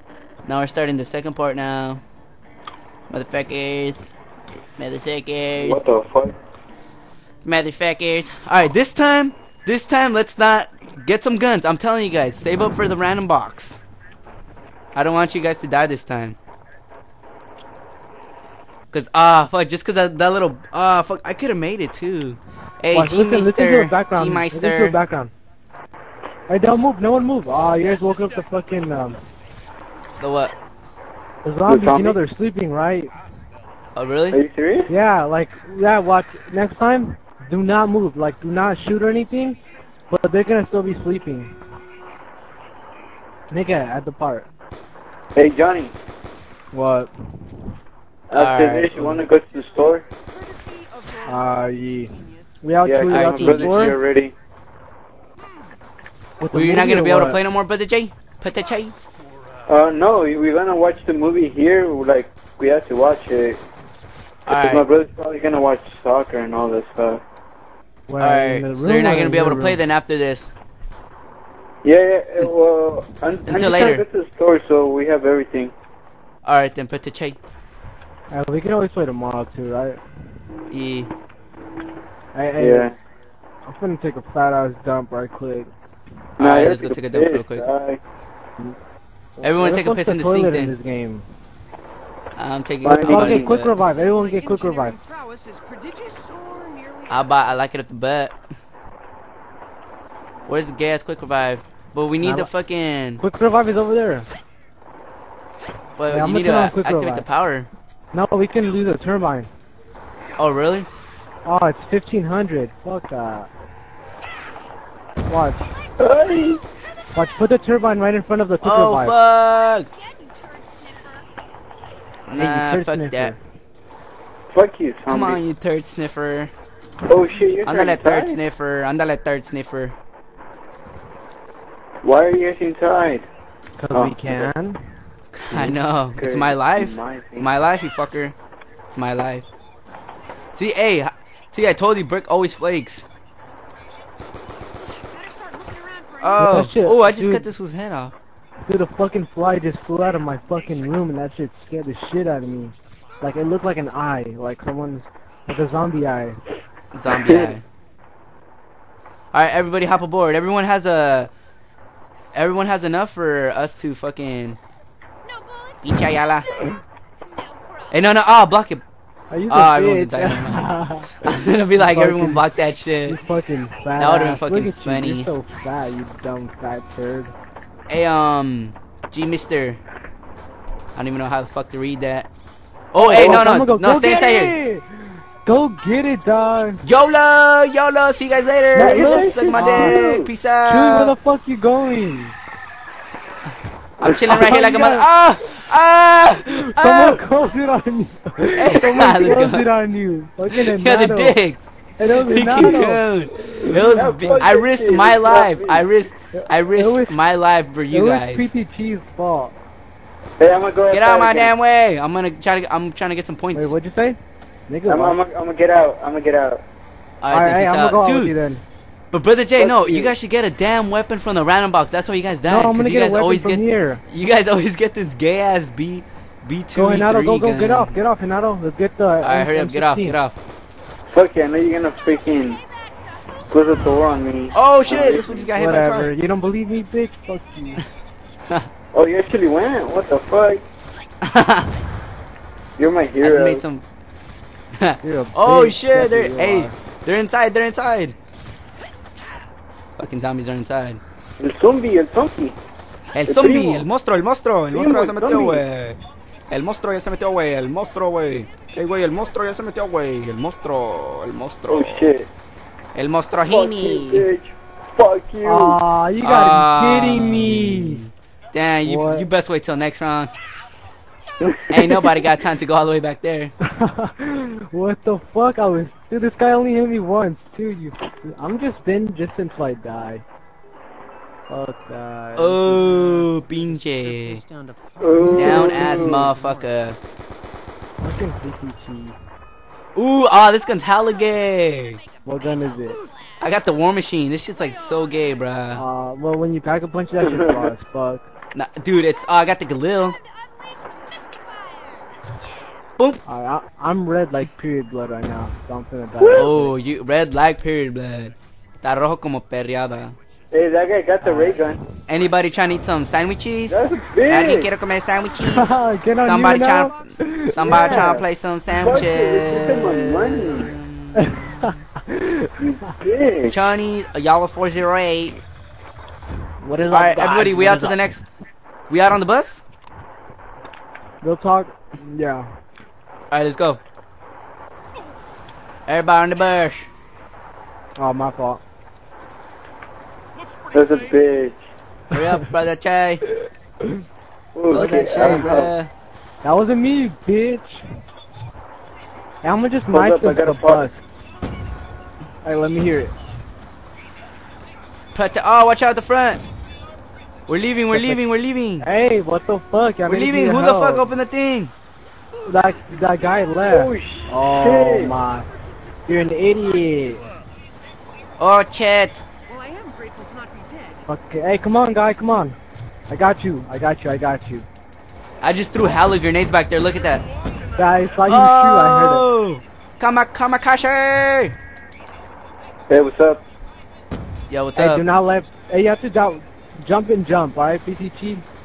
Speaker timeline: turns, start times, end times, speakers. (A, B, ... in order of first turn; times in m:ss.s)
0:00.4-0:02.0 A
0:03.1-0:04.1 A
0:04.8-0:05.8 A
0:05.6-0:06.3 B
0:07.4-0:13.8 A
0:14.9-0:16.4 A
0:18.9-0:25.0 A
0:22.9-0:25.3 C
0:26.5-0:29.2 C
0:30.2-0:30.5 A
0:31.4-0:33.1 C
0:31.7-0:32.2 B
0:34.0-0:34.4 A
0:34.3-0:34.9 B
0:34.9-0:39.6 C
0:40.1-0:41.5 C
0:43.5-0:44.5 C
0:45.3-0:45.9 B
0:46.7-0:47.1 C
0:48.3-0:50.0 B
0:48.3-0:49.2 A
0:50.4-0:51.5 D
0:51.2-0:54.0 C
0:52.8-0:54.3 B
0:53.1-0:54.0 A
0:56.4-0:57.4 C
0:56.5-0:58.9 A
0:59.7-1:03.6 B
1:04.5-1:04.8 A
1:04.5-1:07.2 B
1:08.1-1:09.8 C
1:08.2-1:10.5 A
1:11.8-1:15.7 B
1:13.5-1:14.0 A
1:16.4-1:17.4 A
1:18.3-1:20.0 C
1:20.7-1:21.1 A
1:22.3-1:22.9 C
1:22.6-1:22.9 B
1:23.6-1:25.7 C
1:26.4-1:27.6 A
1:26.4-1:28.0 B
1:29.4-1:31.2 C
1:29.4-1:30.7 A
1:32.4-1:33.8 A
1:32.8-1:35.0 C
1:32.8-1:33.5 B
1:33.8-1:37.2 D
1:37.1-1:38.3 A
1:40.5-1:43.2 A
1:42.2-1:42.5 C
1:43.2-1:44.3 C
1:46.0-1:47.7 A
1:46.1-1:47.2 C
1:48.1-1:49.5 C
1:50.4-1:50.9 A
1:51.4-1:53.5 C
1:55.3-1:55.7 C
1:56.0-1:56.6 B
1:57.1-1:59.2 C
1:58.6-1:59.9 A
2:00.3-2:01.2 D
2:02.3-2:03.3 A
2:02.4-2:03.4 C
2:04.5-2:05.4 B
2:05.1-2:06.5 A
2:07.1-2:08.4 B
2:07.6-2:10.0 A
2:12.0-2:13.2 B
2:13.8-2:14.8 C
2:13.9-2:14.5 B
2:15.3-2:18.3 A
2:15.5-2:17.5 B
2:18.9-2:19.4 A
2:20.5-2:23.0 A
2:25.0-2:26.4 D
2:26.2-2:28.1 A
2:26.4-2:27.4 C
2:28.7-2:36.4 C
2:36.9-2:37.6 A
2:39.3-2:41.3 A
2:42.3-2:44.6 A
2:45.8-2:46.5 A
2:47.9-2:48.8 A
2:49.3-2:52.4 C
2:49.5-2:50.7 A
2:51.2-2:53.2 A
2:53.0-2:57.3 C
2:54.0-2:55.3 A
2:57.9-2:59.8 A
3:00.9-3:02.3 A
3:02.9-3:04.6 A
3:03.0-3:06.8 C
3:06.8-3:11.1 A
3:08.7-3:10.0 C
3:08.8-3:10.3 B
3:10.6-3:12.4 C
3:14.0-3:17.2 A
3:14.0-3:15.1 C
3:16.5-3:21.4 C
3:18.6-3:19.6 A
3:20.5-3:28.5 A
3:22.0-3:23.0 C
3:23.9-3:25.8 B
3:26.3-3:27.2 C
3:27.9-3:29.5 C
3:30.4-3:31.5 B
3:30.9-3:33.7 A
3:33.5-3:34.2 C
3:34.7-3:35.2 C
3:34.9-3:36.6 B
3:37.2-3:38.3 A
3:37.3-3:38.6 C
3:39.1-3:48.0 A
3:39.6-3:40.1 B
3:42.5-3:44.0 C
3:46.7-3:50.2 C
3:49.2-3:50.4 A
3:51.1-3:52.6 B
3:53.5-3:55.5 B
3:54.5-3:56.1 A
3:55.5-3:57.8 C
3:58.9-4:00.6 B
4:01.2-4:01.7 A
4:02.8-4:03.6 B
4:03.2-4:03.8 A
4:04.8-4:08.2 A
4:05.0-4:06.7 C
4:10.0-4:11.0 A
4:11.4-4:12.6 B
4:13.1-4:16.0 A
4:13.3-4:13.8 B
4:14.7-4:15.6 B
4:16.5-4:22.1 A
4:21.7-4:22.3 B
4:22.9-4:24.3 A
4:23.5-4:25.8 B
4:25.4-4:28.0 C
4:26.2-4:30.3 A
4:28.8-4:29.3 C
4:31.4-4:32.0 B
4:31.7-4:33.5 A
4:33.6-4:40.2 C
4:41.5-4:43.2 C
4:42.4-4:44.4 A
4:44.0-4:45.3 D
4:45.0-4:46.3 B
4:45.2-4:46.2 C
4:45.3-4:47.0 A
4:48.0-4:49.2 C
4:49.9-4:52.0 A
4:52.2-4:53.0 C
4:53.4-4:55.8 A
4:55.7-4:58.2 C
4:57.2-4:57.7 B
4:58.5-5:00.2 A
5:00.9-5:01.4 D
5:03.2-5:06.7 C
5:06.3-5:10.1 A
5:10.5-5:11.8 B
5:11.2-5:11.6 C
5:12.1-5:17.0 A
5:13.7-5:14.7 B
5:15.4-5:18.1 C
5:17.5-5:21.7 A
5:17.6-5:20.7 B
5:21.1-5:22.9 C
5:22.9-5:23.5 B
5:23.5-5:25.4 A
5:26.6-5:28.0 C
5:26.9-5:28.2 A
5:28.9-5:29.6 A
5:31.2-5:32.4 C
5:33.3-5:33.8 A
5:35.9-5:36.9 A
5:38.0-5:38.6 C
5:40.7-5:41.6 B
5:42.1-5:43.2 A
5:44.5-5:45.7 B
5:44.7-5:45.9 A
5:44.8-5:45.5 C
5:46.4-5:47.8 C
5:49.4-5:51.0 C
5:49.9-5:50.9 B
5:52.4-5:53.1 C
5:55.1-5:56.4 A
5:57.5-5:58.9 A
5:57.9-5:58.2 C
5:58.8-6:01.1 C
6:00.1-6:01.7 A
6:02.4-6:05.5 C
6:03.6-6:05.2 B
6:06.1-6:07.2 C
6:08.4-6:09.2 A
6:09.5-6:11.0 D
6:11.1-6:12.6 C
6:13.1-6:14.6 C
6:15.4-6:17.2 A
6:17.7-6:19.2 C
6:18.2-6:21.5 A
6:22.9-6:23.4 B
6:24.5-6:25.0 A
6:24.8-6:28.4 C